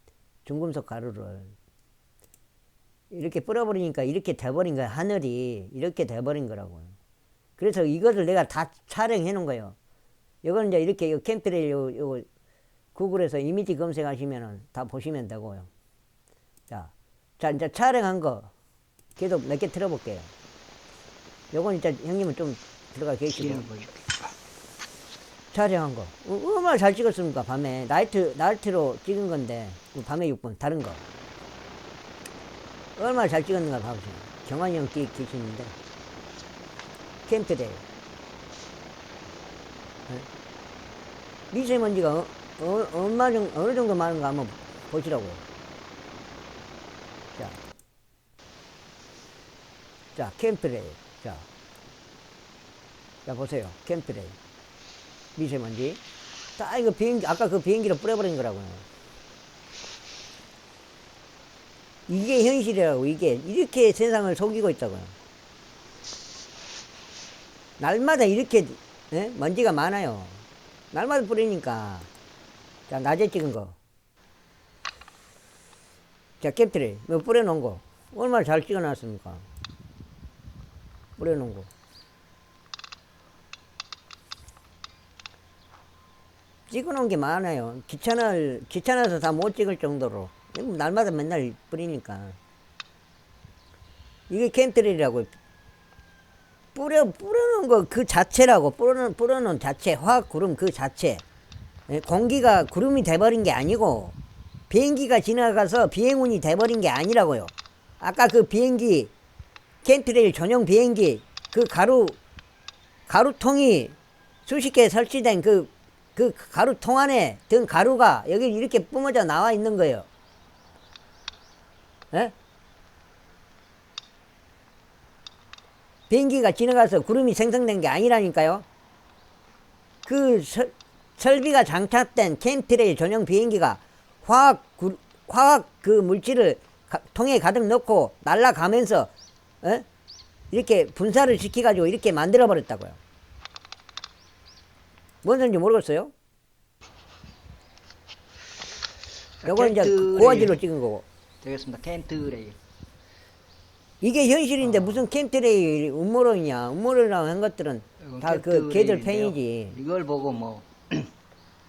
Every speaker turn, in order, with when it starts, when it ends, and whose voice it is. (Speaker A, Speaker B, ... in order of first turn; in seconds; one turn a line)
Speaker A: 0.5-1.5
Speaker A: 3.1-7.0
Speaker A: 7.6-9.8
Speaker A: 10.4-12.3
Speaker A: 12.9-15.7
Speaker A: 16.7-18.5
Speaker A: 19.2-20.3
Speaker A: 21.5-23.7
Speaker B: 23.3-24.1
Speaker A: 25.5-31.0
Speaker A: 33.0-35.7
Speaker A: 37.3-37.8
Speaker A: 41.5-45.4
Speaker A: 50.1-51.5
Speaker A: 53.3-54.4
Speaker A: 55.4-56.0
Speaker A: 56.6-58.9
Speaker A: 62.1-65.2
Speaker A: 67.8-72.1
Speaker A: 72.9-73.8
Speaker A: 76.4-79.5
Speaker A: 81.2-81.7
Speaker A: 86.7-92.4
Speaker A: 94.3-95.3
Speaker A: 96.8-101.2
Speaker A: 101.9-104.2
Speaker A: 104.7-109.1
Speaker A: 109.8-112.2
Speaker A: 113.1-120.1
Speaker A: 126.1-128.7
Speaker A: 130.1-139.1
Speaker A: 140.5-143.0
Speaker A: 145.2-146.1
Speaker B: 149.4-150.6
Speaker A: 149.5-151.1
Speaker B: 151.4-152.6
Speaker A: 154.0-159.8
Speaker B: 154.6-155.0
Speaker B: 158.0-161.1